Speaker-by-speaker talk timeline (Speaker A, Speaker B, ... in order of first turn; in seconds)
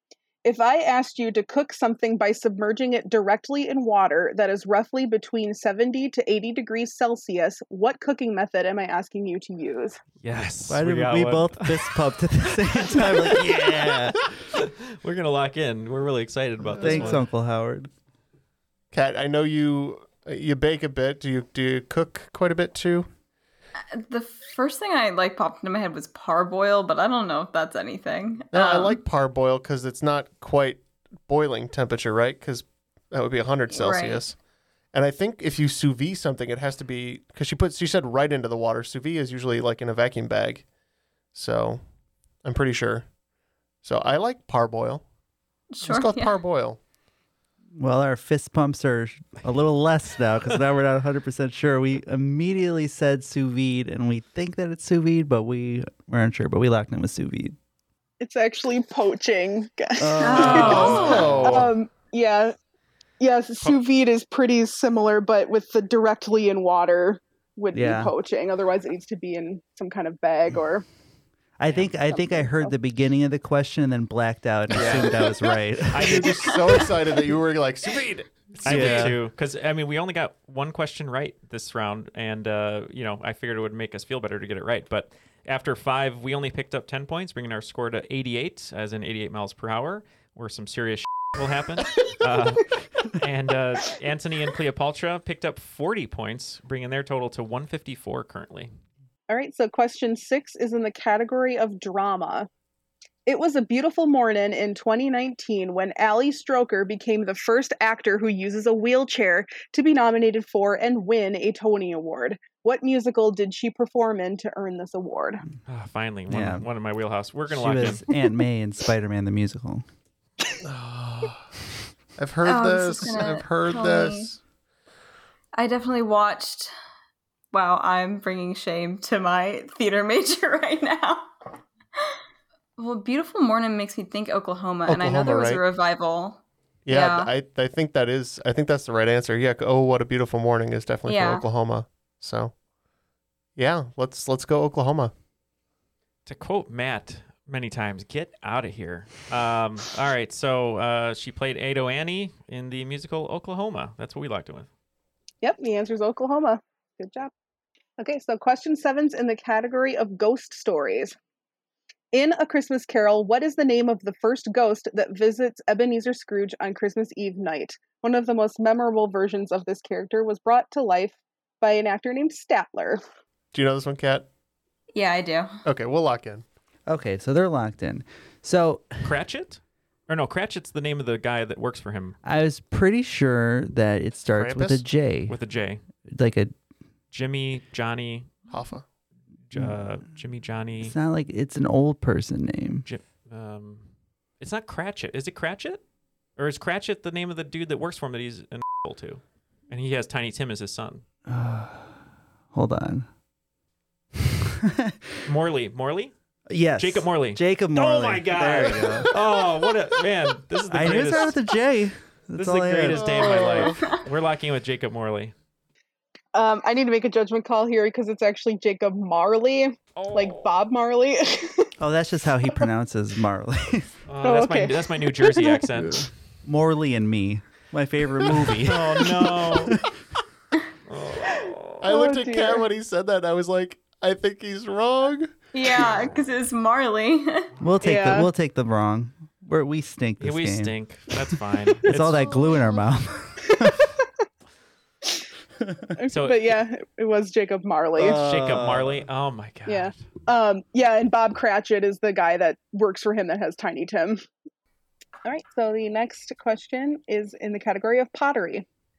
Speaker A: 0.4-10.0, 58.2-60.8, 61.4-62.5, 63.2-70.8, 72.1-72.7, 99.3-102.5, 103.2-115.4, 155.4-157.3, 158.0-161.1, 162.1-173.0, 216.3-221.7, 224.2-225.4, 231.8-232.6, 237.8-238.3, 246.0-248.2, 249.7-254.2, 255.2-258.6
Speaker B: 10.2-11.9, 12.7-17.2, 60.4-61.7, 74.8-75.0, 75.9-76.3, 78.6-98.7, 115.7-118.0, 146.2-154.7, 179.0-182.2, 185.3-185.8, 187.1-188.3, 189.5-190.9, 192.8-193.9, 194.4-195.8, 196.4-201.0, 205.2-206.1, 206.8-211.4, 212.4-215.3, 219.9-220.4, 224.1-226.1, 228.3-229.8, 230.9-231.8, 240.2-242.3, 246.1-246.4, 248.1-250.0
Speaker C: 10.7-14.2, 16.7-17.9, 47.8-57.5, 60.0-61.5, 67.7-68.1, 71.6-76.2, 78.6-79.2, 116.3-116.6, 117.5-119.8, 176.9-179.0, 182.2-185.3, 186.1-186.5, 189.5-190.0, 190.8-192.8, 201.3-202.0, 202.5-203.1, 204.4-205.0, 206.5-209.1, 210.7-213.1, 221.8-223.9, 226.0-229.8, 237.6-240.7, 241.8-243.9, 248.0-249.0
Speaker D: 16.8-17.1, 18.9-23.1, 28.5-34.4, 34.9-40.6, 41.3-41.8, 42.4-43.0, 43.8-45.0, 45.8-46.8, 60.6-61.7, 74.7-75.2, 75.9-79.1, 120.6-121.5, 122.2-124.4, 134.8-135.6, 136.8-142.5, 143.6-145.1, 173.5-174.3, 175.6-176.4, 184.3-184.8, 188.5-188.8, 213.2-213.7, 231.8-235.3
Speaker E: 23.9-29.0, 33.7-34.2, 45.7-46.4, 60.2-61.3, 122.4-124.3, 125.5-126.7, 127.5-131.3, 132.8-137.3, 141.1-141.5, 174.9-175.6, 235.5-237.5